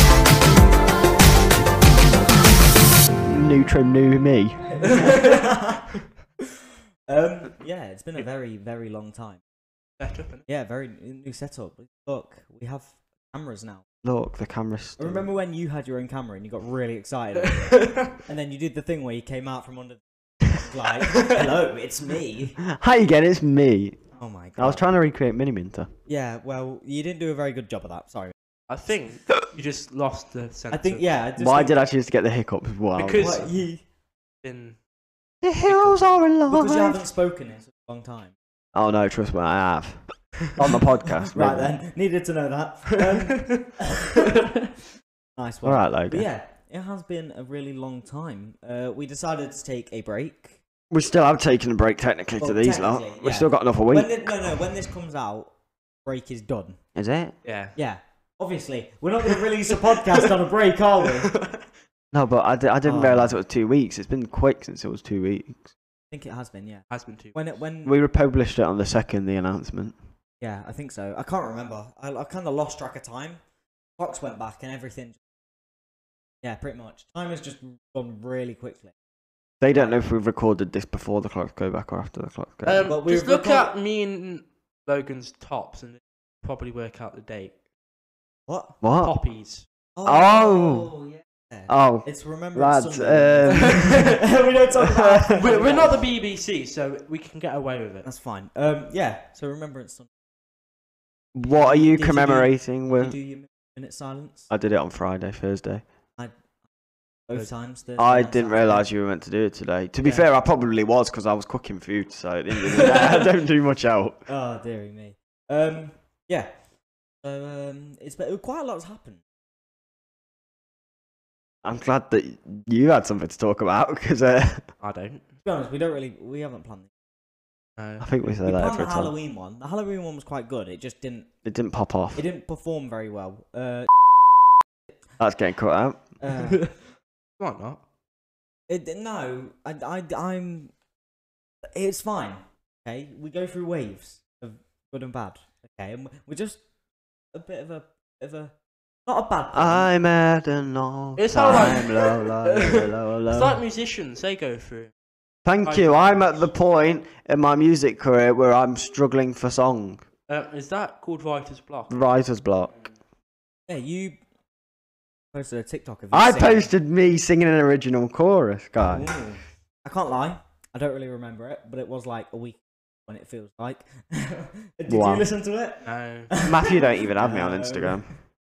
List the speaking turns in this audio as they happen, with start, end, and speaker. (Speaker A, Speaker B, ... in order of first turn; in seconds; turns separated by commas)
Speaker A: 3.2-4.7, Speaker B: 4.7-6.0, Speaker C: 4.9-5.5, Speaker B: 7.1-9.4, Speaker C: 10.0-10.4, Speaker B: 10.5-13.8, Speaker A: 14.0-15.2, Speaker B: 15.0-22.6, Speaker C: 17.4-18.1, Speaker A: 22.6-24.0, Speaker B: 24.2-24.8, Speaker A: 24.6-25.9, Speaker B: 26.1-28.3, Speaker C: 28.7-31.1, Speaker B: 30.7-31.8, Speaker A: 31.4-33.5, Speaker C: 33.0-33.5, Speaker B: 33.2-33.8, Speaker C: 34.4-34.8, Speaker A: 35.4-37.0, Speaker C: 35.6-36.2, Speaker B: 36.5-38.4, Speaker A: 38.7-41.7, Speaker B: 41.0-44.5, Speaker C: 43.4-43.6, Speaker B: 45.4-50.6, Speaker A: 45.6-46.3, Speaker A: 50.9-54.5, Speaker B: 52.4-55.5, Speaker B: 56.1-56.8, Speaker A: 57.0-57.3, Speaker C: 57.4-57.8, Speaker B: 57.8-61.4, Speaker C: 61.3-61.6, Speaker A: 62.1-65.7, Speaker B: 62.8-63.4, Speaker B: 66.1-68.0, Speaker C: 66.9-67.3, Speaker A: 67.8-70.0, Speaker B: 70.4-73.4, Speaker B: 74.0-75.2, Speaker B: 76.4-78.9, Speaker A: 79.6-82.9, Speaker B: 79.7-80.0, Speaker C: 82.7-87.5, Speaker B: 82.8-83.7, Speaker B: 88.5-88.8, Speaker A: 88.8-89.1, Speaker C: 89.0-89.7, Speaker B: 90.0-96.1, Speaker A: 90.0-90.9, Speaker A: 91.7-94.2, Speaker C: 93.6-94.2, Speaker A: 94.7-95.5, Speaker C: 95.3-98.1, Speaker B: 98.0-100.1, Speaker A: 101.3-103.2, Speaker B: 101.5-104.5, Speaker A: 104.5-105.8, Speaker B: 107.3-108.9, Speaker A: 108.0-114.3, Speaker C: 112.6-113.3, Speaker B: 114.3-116.5, Speaker B: 117.2-119.2, Speaker A: 121.6-124.6, Speaker C: 124.8-125.3, Speaker B: 125.4-126.9, Speaker C: 127.8-128.1, Speaker A: 128.0-129.1, Speaker B: 128.4-131.3, Speaker A: 131.4-132.2, Speaker B: 132.2-133.9, Speaker A: 135.2-136.0, Speaker B: 136.2-136.7, Speaker C: 136.5-136.7, Speaker C: 137.4-137.8, Speaker B: 138.7-140.7, Speaker B: 141.7-146.6, Speaker B: 147.3-148.5, Speaker B: 149.1-149.9, Speaker A: 149.5-153.6, Speaker C: 151.2-154.9, Speaker A: 155.5-160.0, Speaker C: 155.6-156.5, Speaker C: 160.3-161.9, Speaker A: 161.9-162.7, Speaker B: 163.7-164.2, Speaker B: 165.3-166.7, Speaker A: 166.1-169.1, Speaker B: 168.8-178.1, Speaker A: 174.9-175.2, Speaker C: 175.8-176.3, Speaker A: 176.4-178.1